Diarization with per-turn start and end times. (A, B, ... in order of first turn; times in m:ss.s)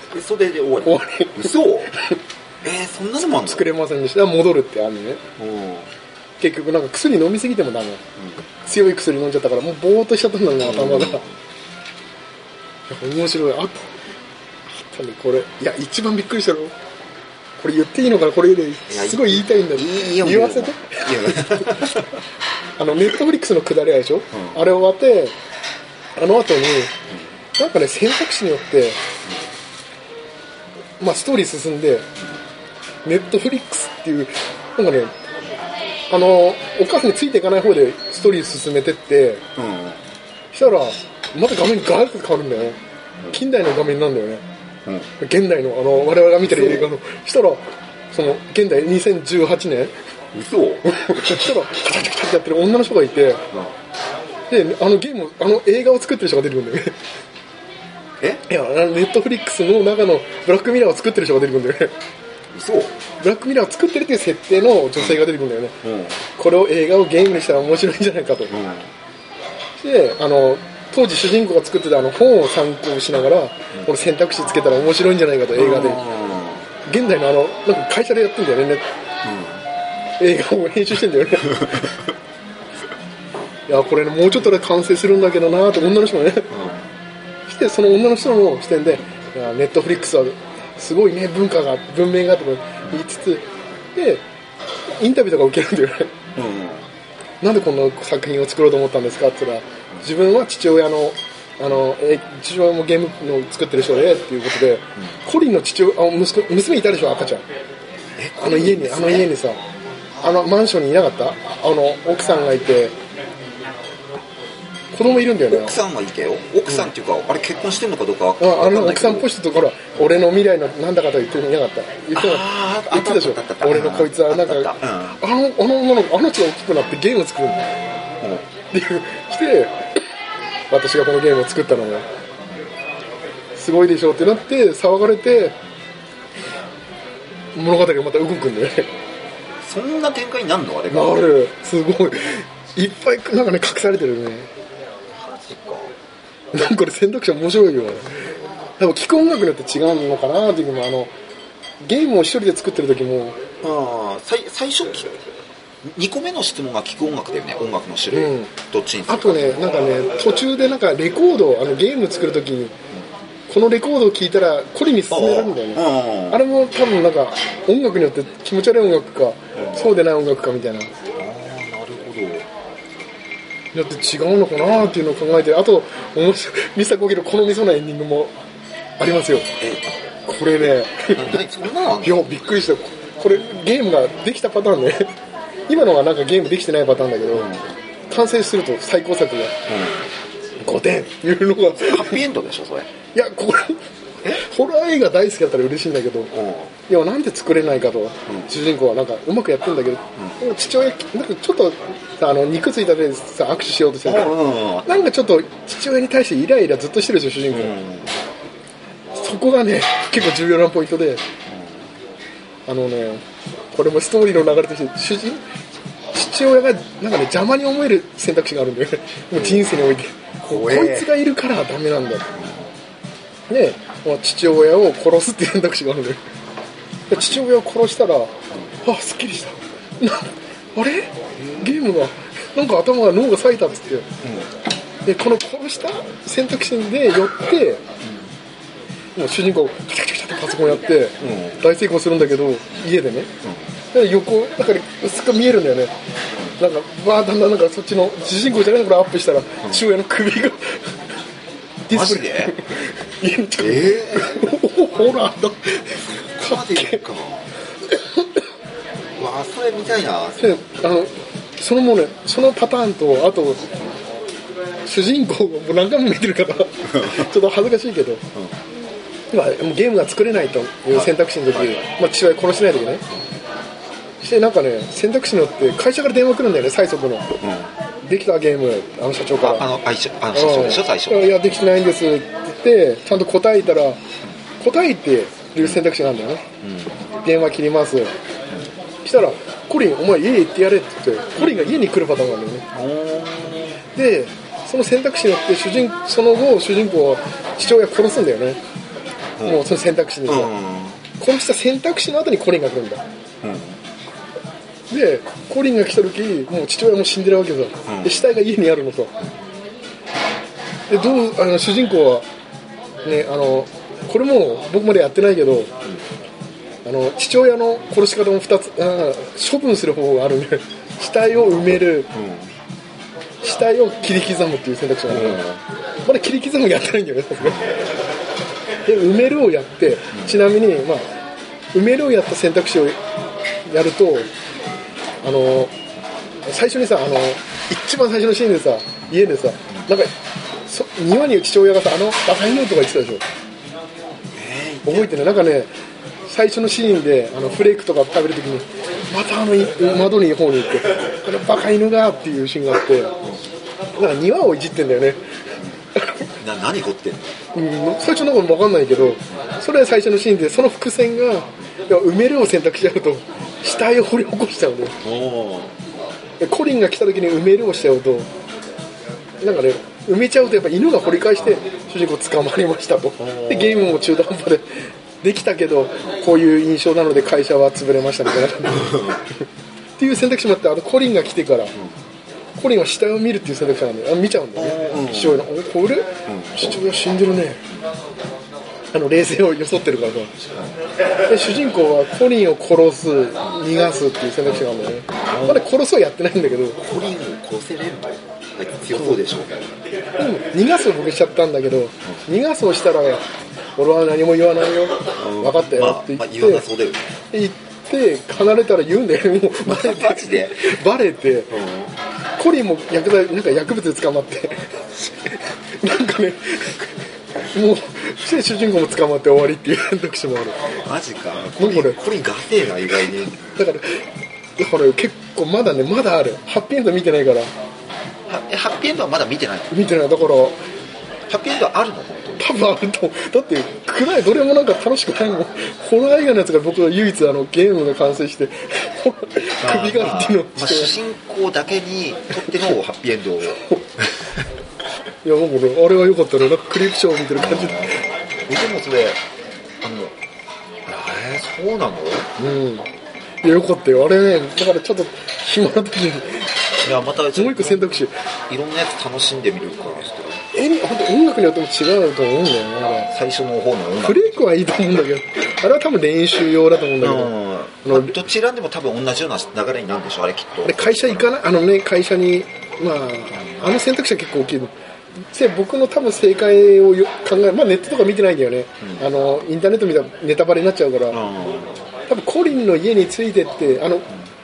0:00.1-0:01.9 A
0:00.8-0:02.2 B
0:02.6-0:03.7 A
0:03.2-0:05.2 B
0:05.4-0:05.9 A
0:06.4-0:08.0 B
0:08.2-0:08.4 A
0:08.6-0:11.2 B
0:10.6-0:11.4 A
0:12.9-0:13.9 B
0:14.7-0:16.7 B
0:17.6-0:22.0 B
0:18.9-0:22.2 A
0:22.8-0:25.4 B
0:24.3-0:24.6 A
0:26.2-0:26.9 B
0:27.6-0:29.0 B
0:31.0-0:32.1 B
0:33.0-0:35.1 B
0:36.1-0:39.4 B
0:39.6-0:40.0 A
0:40.5-0:42.8 B
0:43.3-0:44.4 B
0:44.8-0:45.1 A
0:45.2-0:49.9 B
0:46.4-0:46.9 A
0:50.3-0:51.5 A
0:50.8-0:53.4 B
0:54.5-0:57.0 B
0:58.5-1:01.9 B
1:02.5-1:03.0 A
1:03.2-1:05.8 B
1:05.8-1:06.2 A
1:06.4-1:08.5 B
1:08.5-1:08.9 A
1:09.8-1:16.0 B
1:15.5-1:16.7 A
1:16.8-1:18.8 B
1:19.2-1:19.6 A
1:20.2-1:21.9 B
1:21.6-1:21.9 A
1:23.7-1:26.5 B
1:26.5-1:26.9 A
1:27.5-1:34.2 B
1:34.9-1:36.1 B
1:36.4-1:36.9 A
1:37.4-1:47.4 B
1:48.2-1:49.3 A
1:48.4-1:49.6 B
1:50.2-1:53.0 B
1:54.9-1:55.8 B
1:55.3-1:59.3 A
1:58.4-2:07.7 B
2:02.1-2:05.2 A
2:08.2-2:08.4 A
2:08.7-2:09.8 B
2:10.7-2:12.0 B
2:13.5-2:15.6 B
2:17.5-2:18.9 B
2:19.6-2:21.2 A
2:20.9-2:24.5 B
2:25.1-2:25.9 A
2:26.5-2:28.1 B
2:28.8-2:31.1 B
2:31.8-2:33.4 B
2:33.6-2:35.2 A
2:35.8-2:39.6 A
2:38.1-2:38.5 B
2:39.1-2:42.7 B
2:43.5-2:50.9 B
2:45.1-2:46.4 A
2:51.2-2:52.5 A
2:53.7-2:58.3 B
2:59.0-2:59.5 B
2:59.6-2:59.9 A
3:00.2-3:01.4 B
3:01.1-3:02.3 A
3:02.0-3:05.1 B
3:05.7-3:07.5 B
3:07.3-3:07.7 A
3:08.1-3:09.6 B
3:09.7-3:10.1 A
3:10.6-3:12.2 B
3:11.8-3:12.9 A
3:13.1-3:16.3 B
3:16.3-3:16.7 A
3:16.9-3:27.7 B
3:24.0-3:25.0 A
3:27.5-3:28.2 A
3:29.1-3:31.2 B
3:31.5-3:31.9 A
3:32.7-3:35.4 B
3:36.1-3:42.3 B
3:39.3-3:39.8 A
3:40.5-3:41.1 A
3:42.3-3:42.7 A
3:43.5-3:46.2 B
3:47.1-3:54.1 B
3:51.4-3:51.7 A
3:54.2-3:54.5 A
3:55.0-3:57.8 B
3:58.0-3:58.3 A
3:59.2-4:03.3 B
4:01.2-4:01.6 A
4:03.4-4:03.7 A
4:03.9-4:05.9 B
4:06.6-4:10.9 B
4:11.9-4:17.0 B
4:11.9-4:12.6 A
4:13.6-4:14.5 A
4:16.4-4:17.5 A
4:17.9-4:18.4 B
4:19.2-4:20.6 A
4:20.4-4:23.7 B
4:24.8-4:28.2 B
4:26.9-4:27.2 A
4:29.3-4:33.0 B
4:30.9-4:31.9 A
4:34.2-4:37.3 B
4:37.4-4:37.7 A
4:38.0-4:39.7 B
4:39.4-4:41.6 A
4:40.3-4:44.0 B
4:44.6-4:46.5 B
4:46.6-4:47.0 A
4:47.2-4:48.1 B
4:49.0-4:52.7 B
4:51.4-4:51.9 A
4:52.7-4:53.8 A
4:54.0-4:58.6 B
4:59.4-4:59.7 A
4:59.4-5:00.5 B
5:00.3-5:01.0 A
5:01.2-5:03.0 B
5:03.4-5:03.8 A
5:04.9-5:09.1 B
5:07.8-5:08.2 A
5:10.9-5:12.3 B
5:13.0-5:15.7 B
5:16.8-5:22.1 B
5:21.6-5:22.5 A
5:23.4-5:25.4 B
5:25.1-5:25.6 A
5:26.0-5:27.7 B
5:27.4-5:28.0 A
5:28.8-5:31.0 B
5:30.1-5:30.4 A
5:31.7-5:33.0 B
5:33.6-5:34.3 B
5:35.2-5:35.7 B
5:36.4-5:40.1 B
5:40.7-5:43.2 B
5:44.3-5:45.2 A
5:44.8-5:45.7 B
5:46.3-5:53.1 B
5:54.0-5:55.2 B
5:56.0-5:56.2 B
5:56.4-5:57.4 A
5:57.5-6:05.0 B
6:05.0-6:05.8 A
6:06.4-6:08.3 B
6:09.4-6:19.4 B
6:13.2-6:14.0 A
6:18.8-6:19.2 A
6:20.0-6:21.7 B
6:22.6-6:27.6 B
6:24.6-6:25.4 A
6:26.3-6:26.7 A
6:28.9-6:30.3 B
6:31.3-6:36.8 B
6:35.3-6:35.6 A
6:36.8-6:39.7 A
6:38.9-6:39.2 B
6:40.2-6:43.2 B
6:43.8-6:46.6 B
6:45.2-6:47.1 A
6:47.3-6:51.5 B
6:49.6-6:50.7 A
6:51.5-6:52.0 A
6:52.4-6:54.8 B
6:55.8-6:57.0 B
6:57.5-7:00.6 B
7:00.8-7:03.5 A
7:01.6-7:02.0 B
7:03.6-7:04.0 B
7:04.6-7:07.5 B
7:08.3-7:09.9 A
7:09.7-7:10.6 B
7:11.3-7:12.5 A
7:12.4-7:20.9 B
7:19.6-7:24.2 A
7:25.2-7:28.0 B
7:27.3-7:29.2 A
7:29.8-7:30.2 A
7:30.8-7:32.3 A
7:32.4-7:32.9 B
7:33.4-7:36.5 B
7:36.8-7:40.4 A
7:37.3-7:38.2 B
7:40.5-7:43.1 B
7:43.1-7:44.5 A
7:44.0-7:48.2 B
7:47.0-7:51.3 A
7:50.6-7:54.7 B
7:55.3-8:01.2 B
7:58.8-7:59.1 A
8:01.1-8:01.8 A
8:02.1-8:04.1 B